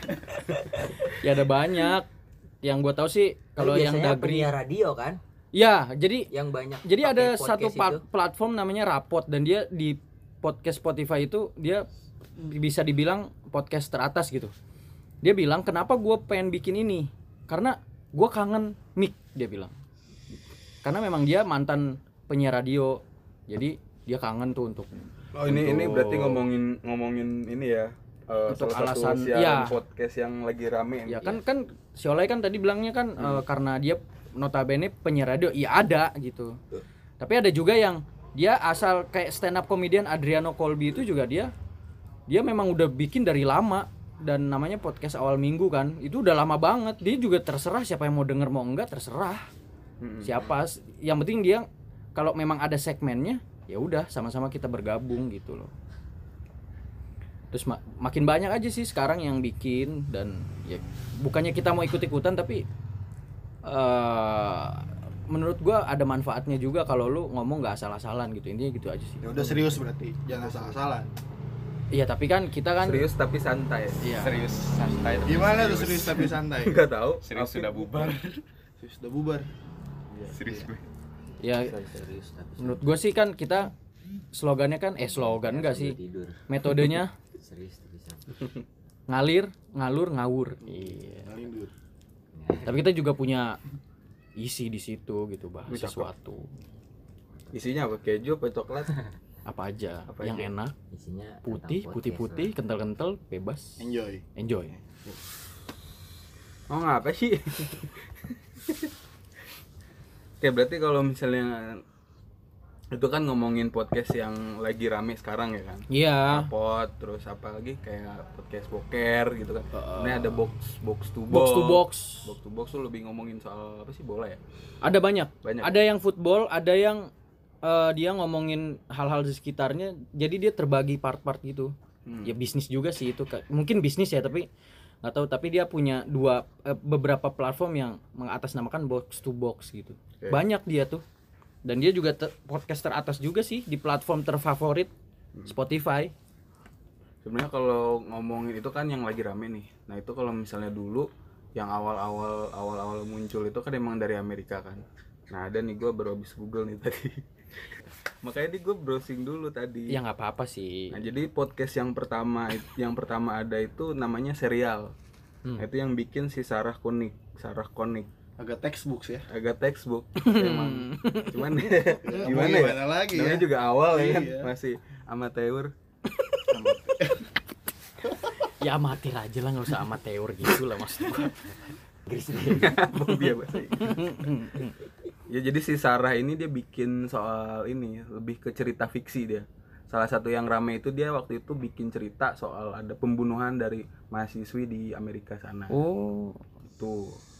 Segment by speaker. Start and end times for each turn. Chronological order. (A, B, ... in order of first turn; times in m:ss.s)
0:01.0-0:02.1 A
0:02.6-0:04.5 A
0:03.6-0:05.2 B
0:05.5-0:06.3 A
0:06.3-0:08.0 B
0:06.8-0:11.8 A
0:12.4-0:14.5 A
0:15.2-0:19.7 A
0:20.8-0:26.4 A
0:25.3-0:31.4 C
0:28.5-0:29.7 A
0:31.0-0:36.6 A
0:37.2-0:41.5 A
0:42.3-0:49.4 A
0:50.0-0:50.5 C
0:50.2-0:55.7 A
0:57.5-1:02.6 A
1:03.6-1:09.8 A
1:09.2-1:11.1 D
1:10.3-1:10.7 A
1:11.9-1:13.0 A
1:12.8-1:14.0 C
1:14.0-1:15.3 A
1:14.1-1:16.3 E
1:15.2-1:16.8 D
1:16.6-1:18.2 C
1:17.2-1:18.3 E
1:18.8-1:19.5 D
1:20.3-1:20.9 E
1:20.3-1:20.7 D
1:21.4-1:21.7 A
1:21.6-1:23.0 B
1:22.6-1:23.7 A
1:24.3-1:26.0 A
1:25.0-1:26.4 B
1:26.5-1:27.1 A
1:27.4-1:28.3 B
1:29.1-1:31.4 A
1:30.6-1:31.7 D
1:32.3-1:32.8 B
1:32.6-1:33.6 A
1:34.4-1:36.5 A
1:35.7-1:36.1 C
1:37.5-1:39.0 C
1:39.4-1:40.7 A
1:40.1-1:40.5 C
1:40.9-1:42.5 B
1:41.4-1:43.8 A
1:43.8-1:44.2 D
1:44.4-1:44.8 A
1:46.7-1:48.9 C
1:50.4-1:51.8 C
1:52.9-2:04.4 C
1:55.9-1:56.5 A
1:59.7-2:00.4 A
2:01.3-2:02.3 A
2:04.8-2:07.1 A
2:05.4-2:05.8 C
2:07.6-2:14.5 A
2:12.0-2:12.4 C
2:15.0-2:21.0 A
2:21.6-2:24.9 A
2:25.5-2:26.1 A
2:27.2-2:37.2 C
2:38.2-2:40.0 C
2:39.9-2:41.0 A
2:40.9-2:44.9 C
2:45.6-2:48.1 C
2:48.4-2:49.2 D
2:49.3-2:55.7 C
2:50.2-2:52.2 A
2:52.0-2:54.5 D
2:56.2-2:56.5 A
2:56.5-2:57.3 D
2:58.6-3:01.4 A
3:02.0-3:02.7 B
3:02.4-3:04.1 C
3:03.2-3:04.7 A
3:05.3-3:15.7 C
3:15.7-3:16.4 A
3:16.8-3:17.2 C